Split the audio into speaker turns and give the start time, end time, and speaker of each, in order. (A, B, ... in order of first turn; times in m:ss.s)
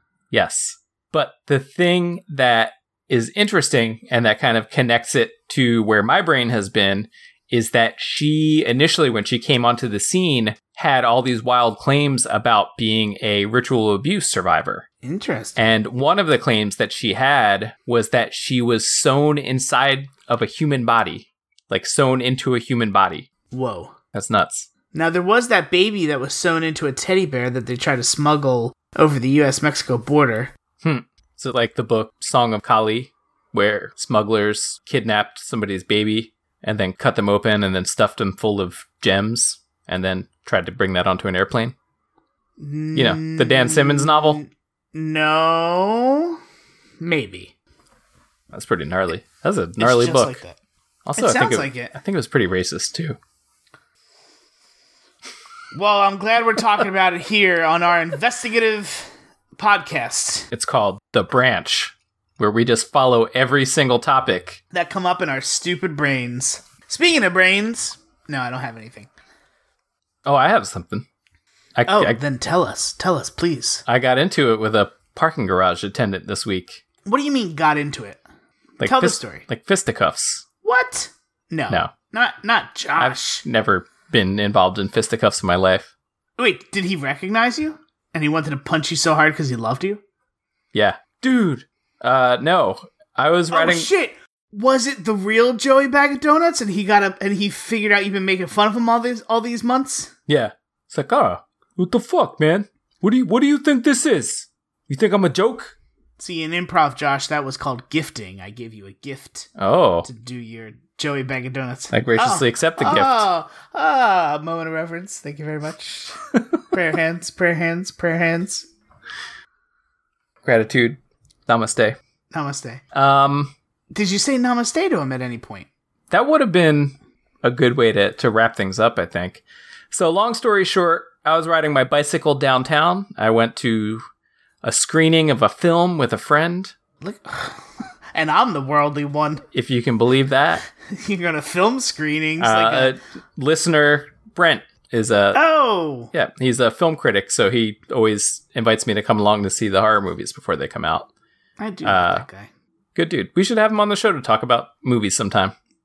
0:00.3-0:14.8 A
0:15.0-0:15.6 B
0:15.6-0:23.3 A
0:23.5-0:23.9 B
0:24.1-0:24.7 A
0:24.9-0:30.5 B
0:30.8-0:41.7 A
0:42.6-0:46.4 B
0:42.9-0:44.4 A
0:47.0-0:47.5 B
0:48.5-0:50.4 A
0:49.8-0:50.6 B
0:51.0-0:53.2 A
0:51.2-0:51.9 B
0:55.7-1:00.5 B
1:00.5-1:04.6 A
1:04.7-1:09.1 B
1:10.2-1:11.0 A
1:11.8-1:12.2 A
1:11.9-1:13.8 B
1:13.8-1:16.8 A
1:17.0-1:18.2 B
1:18.8-1:20.4 A
1:18.8-1:19.4 B
1:20.6-1:23.4 B
1:23.0-1:25.9 A
1:26.4-1:30.0 B
1:30.7-1:33.9 A
1:33.5-1:40.1 B
1:40.3-1:45.7 A
1:46.2-1:49.5 B
1:49.6-1:50.1 A
1:50.0-1:56.2 B
1:51.9-1:53.3 A
1:56.7-1:58.7 B
2:00.4-2:02.0 A
2:02.3-2:02.8 B
2:02.9-2:03.5 A
2:03.9-2:05.7 B
2:06.1-2:14.0 A
2:14.6-2:16.7 A
2:17.0-2:19.4 B
2:19.5-2:20.6 A
2:20.9-2:22.9 B
2:22.4-2:25.4 A
2:25.3-2:26.1 B
2:26.1-2:31.1 A
2:31.6-2:32.5 B
2:31.8-2:32.2 A
2:32.9-2:35.5 A